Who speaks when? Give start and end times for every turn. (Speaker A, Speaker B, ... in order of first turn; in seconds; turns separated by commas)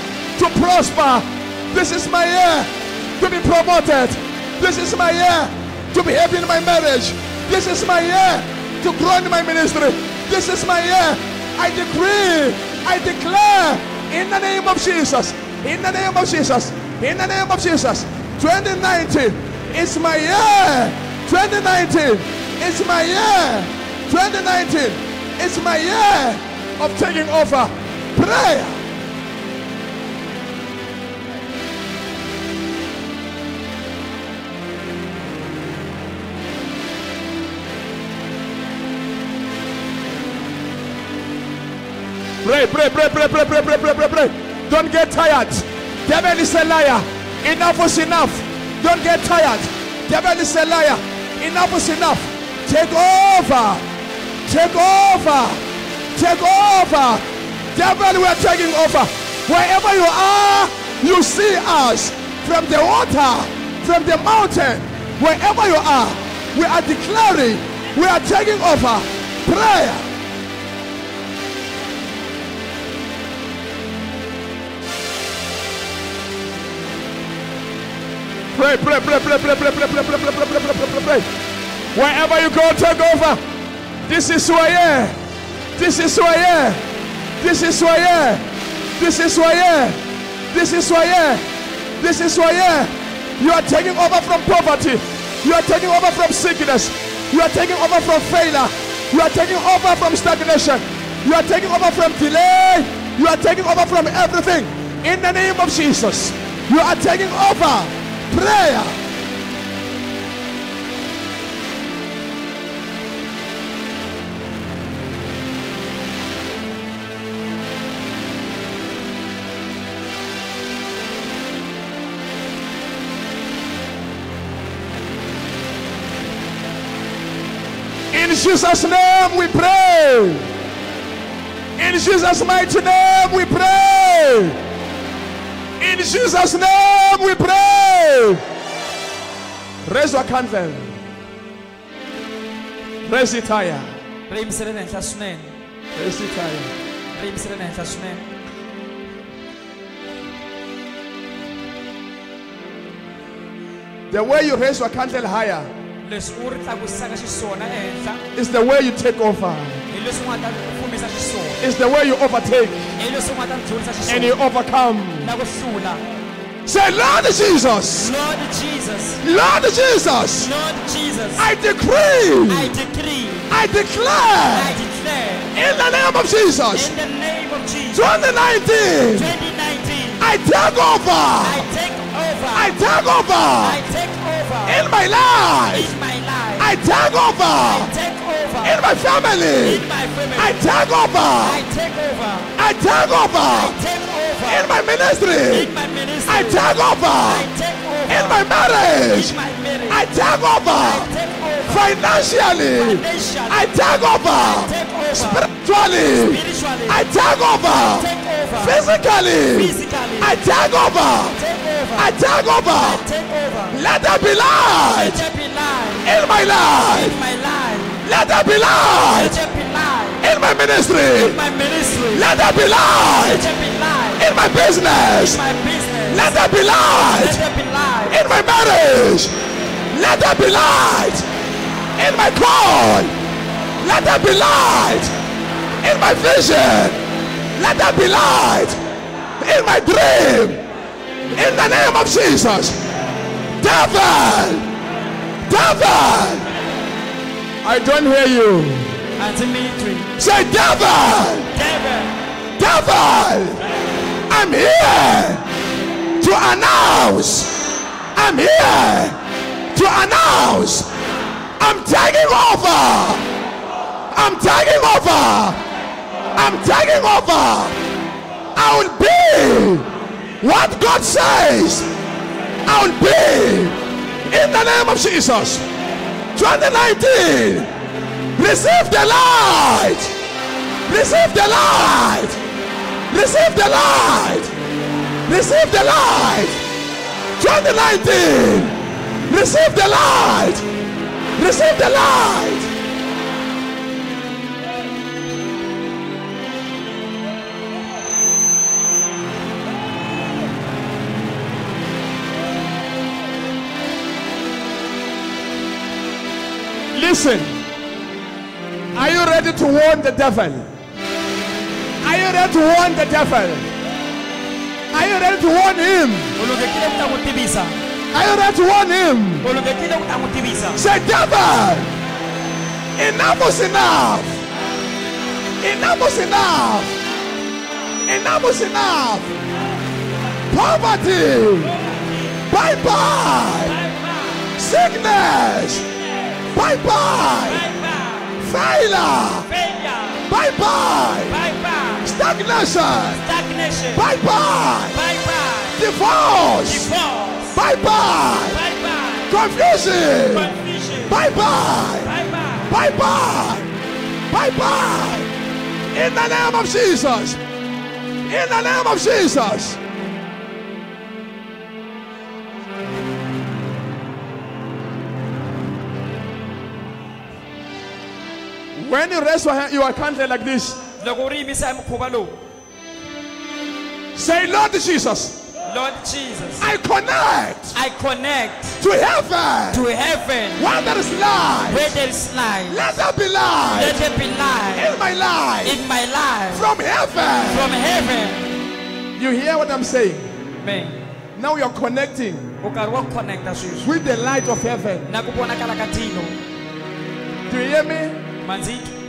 Speaker A: 0.4-28.8, Speaker A: 42.4-53.8, Speaker A: 54.5-55.6, Speaker A: 56.1-70.1, Speaker A: 78.5-81.3, Speaker A: 81.9-83.4, Speaker A: 84.1-85.2, Speaker A: 85.8-86.8, Speaker A: 87.4-88.4, Speaker A: 89.0-90.0, Speaker A: 90.5-91.4, Speaker A: 92.0-109.0, Speaker A: 128.1-130.5, Speaker A: 131.8-134.6, Speaker A: 135.8-138.4, Speaker A: 139.9-140.9, Speaker A: 143.1-143.9, Speaker B: 144.3-145.6, Speaker A: 145.9-146.7, Speaker B: 147.1-148.3, Speaker A: 154.1-155.7, Speaker B: 156.0-158.2, Speaker A: 158.3-159.8, Speaker B: 159.9-161.6, Speaker A: 161.6-162.9, Speaker B: 163.0-164.3, Speaker A: 164.1-165.3, Speaker B: 165.2-166.0, Speaker A: 166.7-168.1, Speaker B: 168.0-169.2, Speaker A: 169.2-170.5, Speaker B: 170.4-171.5, Speaker A: 171.4-172.8, Speaker B: 172.5-173.5, Speaker A: 173.5-174.8, Speaker B: 174.5-175.5, Speaker A: 175.5-176.9, Speaker B: 176.7-178.1, Speaker A: 177.9-179.3, Speaker B: 179.1-180.2, Speaker A: 180.2-181.7, Speaker B: 181.4-182.8, Speaker A: 182.5-183.8, Speaker B: 183.6-184.8, Speaker A: 184.7-185.9, Speaker B: 185.7-186.7, Speaker A: 186.6-187.9, Speaker B: 187.6-188.8, Speaker A: 188.6-189.8, Speaker B: 189.6-190.6, Speaker A: 190.4-191.6, Speaker B: 191.4-192.5, Speaker A: 192.6-193.8, Speaker B: 193.4-194.7, Speaker A: 194.5-195.7, Speaker B: 195.5-196.7, Speaker A: 196.3-197.5, Speaker B: 197.2-198.5, Speaker A: 198.1-199.3, Speaker B: 199.0-200.1, Speaker A: 199.9-201.1, Speaker B: 200.8-202.0, Speaker A: 201.7-211.4, Speaker B: 202.7-203.7, Speaker B: 204.3-205.6, Speaker B: 206.1-207.1, Speaker B: 207.7-208.9, Speaker B: 209.5-210.4, Speaker B: 211.3-212.2, Speaker A: 212.0-213.1, Speaker B: 212.8-213.8, Speaker A: 213.7-215.2, Speaker B: 214.9-216.1, Speaker A: 216.0-217.2, Speaker B: 216.7-218.0, Speaker A: 218.0-219.4, Speaker B: 219.0-220.2, Speaker A: 220.2-221.4, Speaker B: 221.1-222.3, Speaker A: 222.1-223.5, Speaker B: 223.0-224.3, Speaker A: 224.2-225.4, Speaker B: 225.1-228.2, Speaker A: 226.1-227.4, Speaker A: 228.1-229.3, Speaker A: 229.9-231.2, Speaker A: 232.0-233.1, Speaker A: 233.8-235.1, Speaker A: 235.8-237.0, Speaker A: 237.6-238.8, Speaker A: 239.4-240.6, Speaker A: 241.3-242.8, Speaker A: 243.6-244.7, Speaker A: 245.5-246.5, Speaker A: 247.6-248.9, Speaker B: 249.2-250.2, Speaker A: 250.2-251.5, Speaker B: 251.5-252.1, Speaker A: 252.6-253.6, Speaker A: 254.3-255.4, Speaker A: 256.2-257.6, Speaker A: 258.2-259.2, Speaker A: 259.7-260.9, Speaker A: 261.6-263.3, Speaker A: 264.1-265.6, Speaker A: 266.4-267.8, Speaker A: 268.6-269.9, Speaker A: 270.4-271.9, Speaker A: 272.6-273.8, Speaker A: 274.3-275.6, Speaker A: 276.4-277.7, Speaker A: 278.4-280.1, Speaker A: 280.9-282.4, Speaker A: 283.1-284.5, Speaker A: 285.3-286.6, Speaker A: 287.4-288.8, Speaker A: 289.3-290.6, Speaker A: 291.4-292.7, Speaker A: 306.9-307.6, Speaker A: 308.9-310.7, Speaker A: 312.0-313.7, Speaker A: 314.9-316.3, Speaker B: 316.4-317.8, Speaker A: 318.1-319.5, Speaker B: 319.4-320.8, Speaker A: 320.8-321.9, Speaker A: 323.0-324.4, Speaker A: 325.6-326.9, Speaker A: 328.1-329.3, Speaker A: 330.5-331.7, Speaker A: 332.5-333.8, Speaker B: 333.6-334.5, Speaker A: 334.6-335.8, Speaker A: 336.5-337.7, Speaker B: 337.5-338.4, Speaker A: 338.4-339.5, Speaker B: 339.5-340.3, Speaker A: 340.3-341.4, Speaker B: 341.3-342.1, Speaker A: 342.0-343.2, Speaker B: 343.1-344.1, Speaker A: 343.9-345.0, Speaker B: 344.9-345.8, Speaker A: 345.8-346.9, Speaker B: 346.7-347.6, Speaker A: 347.5-348.6, Speaker B: 348.5-349.3, Speaker A: 349.3-350.6, Speaker B: 350.3-351.1, Speaker A: 351.1-352.1, Speaker B: 352.0-352.7, Speaker A: 352.7-353.7, Speaker A: 354.3-355.3, Speaker A: 355.9-357.4, Speaker A: 358.3-359.8, Speaker A: 368.8-370.8, Speaker B: 371.0-372.4, Speaker A: 374.1-375.4, Speaker B: 375.7-376.7, Speaker A: 376.6-377.8, Speaker B: 377.7-378.8, Speaker A: 378.8-379.9, Speaker B: 379.7-380.6, Speaker A: 380.6-382.0, Speaker B: 381.7-382.8, Speaker A: 382.7-384.0, Speaker B: 383.7-384.9, Speaker A: 384.7-385.8, Speaker B: 385.6-386.7, Speaker A: 386.5-387.7, Speaker B: 387.5-388.5, Speaker A: 389.2-390.3, Speaker B: 390.6-391.0, Speaker A: 391.4-392.5, Speaker B: 392.6-393.9, Speaker A: 393.8-395.1, Speaker B: 395.1-396.4, Speaker A: 397.5-398.2, Speaker B: 398.4-398.9